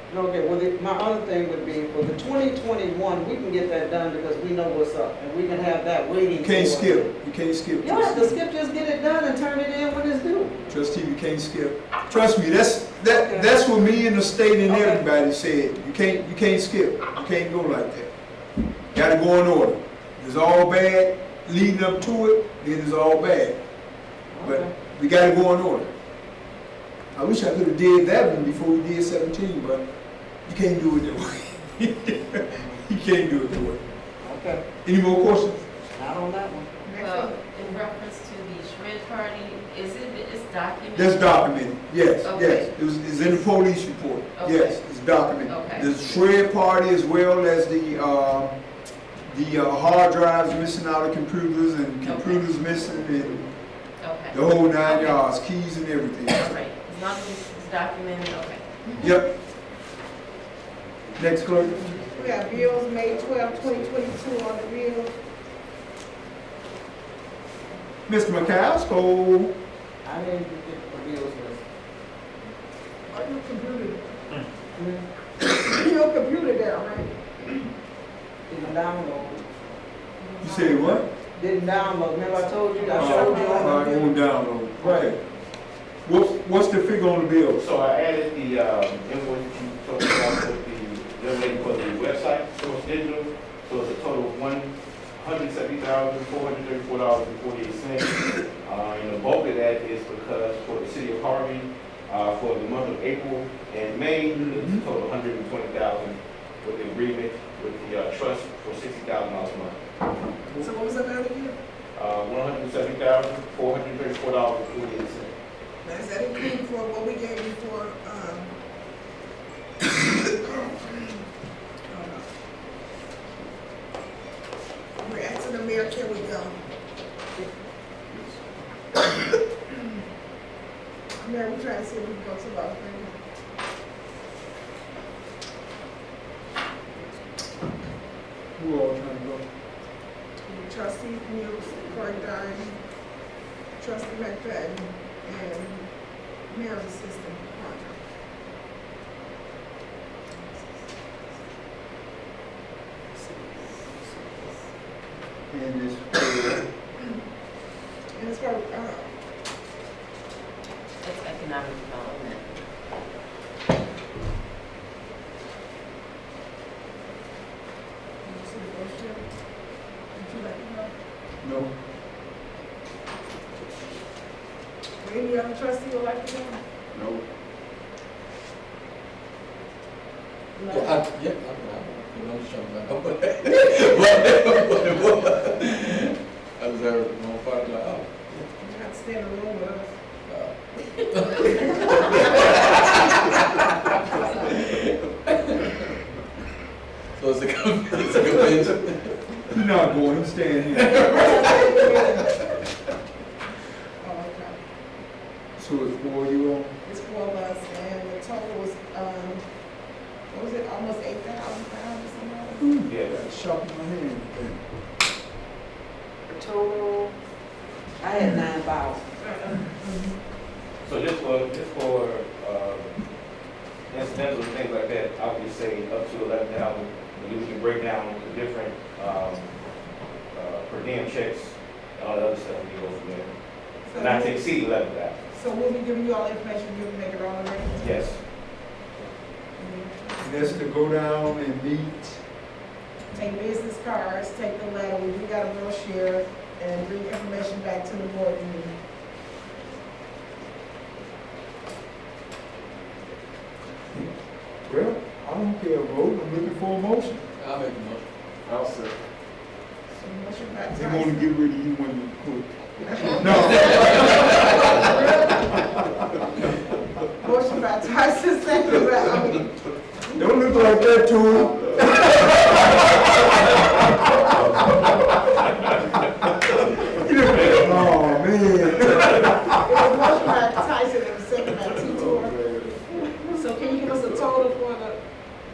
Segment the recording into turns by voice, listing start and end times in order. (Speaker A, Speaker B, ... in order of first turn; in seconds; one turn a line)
Speaker A: 0.1-7.1
Speaker B: 6.4-8.4
Speaker A: 7.8-10.5
Speaker B: 10.7-18.1
Speaker A: 13.1-13.6
Speaker A: 14.6-15.0
Speaker B: 18.9-23.6
Speaker A: 24.3-24.7
Speaker B: 24.4-25.9
Speaker B: 27.1-29.9
Speaker B: 30.4-33.8
Speaker A: 34.2-34.6
Speaker B: 34.8-35.7
Speaker A: 35.9-36.8
Speaker C: 36.8-37.4
Speaker D: 37.0-41.6
Speaker B: 40.9-48.6
Speaker D: 42.2-44.8
Speaker D: 45.5-45.9
Speaker B: 49.2-53.5
Speaker D: 52.0-53.0
Speaker D: 54.0-55.2
Speaker B: 54.3-56.5
Speaker D: 56.3-58.6
Speaker B: 59.0-59.3
Speaker B: 61.2-61.9
Speaker C: 62.1-65.1
Speaker A: 63.1-63.8
Speaker B: 68.1-69.5
Speaker A: 70.0-71.6
Speaker C: 73.1-74.2
Speaker A: 74.8-75.1
Speaker C: 75.4-77.2
Speaker A: 78.5-79.5
Speaker C: 80.2-81.0
Speaker B: 80.4-81.1
Speaker A: 81.3-84.0
Speaker C: 82.8-84.1
Speaker B: 83.0-85.2
Speaker A: 84.8-85.1
Speaker B: 86.0-87.6
Speaker E: 87.5-109.8
Speaker B: 104.3-104.8
Speaker C: 110.6-111.6
Speaker E: 112.0-115.3
Speaker C: 115.8-118.6
Speaker C: 119.8-121.2
Speaker C: 121.9-122.3
Speaker C: 125.0-126.7
Speaker C: 131.2-133.2
Speaker B: 138.6-139.4
Speaker C: 140.4-142.8
Speaker C: 143.8-145.9
Speaker C: 146.5-148.0
Speaker C: 150.4-150.7
Speaker B: 155.5-156.7
Speaker C: 158.2-159.1
Speaker D: 161.0-162.6
Speaker C: 168.2-169.3
Speaker C: 170.2-170.9
Speaker B: 171.4-171.7
Speaker C: 175.0-176.6
Speaker B: 176.9-177.2
Speaker C: 180.6-181.0
Speaker F: 180.7-188.5
Speaker C: 188.6-189.9
Speaker F: 190.2-194.9
Speaker F: 197.2-199.3
Speaker B: 199.5-201.5
Speaker C: 200.8-202.3
Speaker F: 200.9-202.3
Speaker C: 204.0-204.6
Speaker B: 205.6-206.7
Speaker C: 206.8-209.4
Speaker C: 210.3-212.7
Speaker B: 212.6-214.6
Speaker E: 212.9-213.2
Speaker A: 216.3-217.2
Speaker A: 218.0-219.6
Speaker C: 219.6-220.1
Speaker E: 220.8-223.0
Speaker E: 223.9-229.5
Speaker E: 230.3-233.3
Speaker C: 233.8-234.4
Speaker E: 233.9-235.2
Speaker C: 235.3-238.0
Speaker E: 237.8-238.2
Speaker C: 239.6-240.7
Speaker B: 240.2-242.2
Speaker C: 243.1-248.8
Speaker B: 254.7-257.2
Speaker F: 257.4-258.1
Speaker C: 259.9-261.2
Speaker B: 260.7-262.5
Speaker C: 262.9-265.8
Speaker B: 263.1-264.4
Speaker C: 267.2-269.5
Speaker B: 270.1-272.8
Speaker C: 270.2-270.7
Speaker C: 272.0-272.4
Speaker E: 273.9-275.7
Speaker B: 276.9-279.8
Speaker E: 277.2-278.0
Speaker E: 278.8-279.1
Speaker C: 279.6-282.4
Speaker B: 282.2-282.7
Speaker C: 283.2-285.0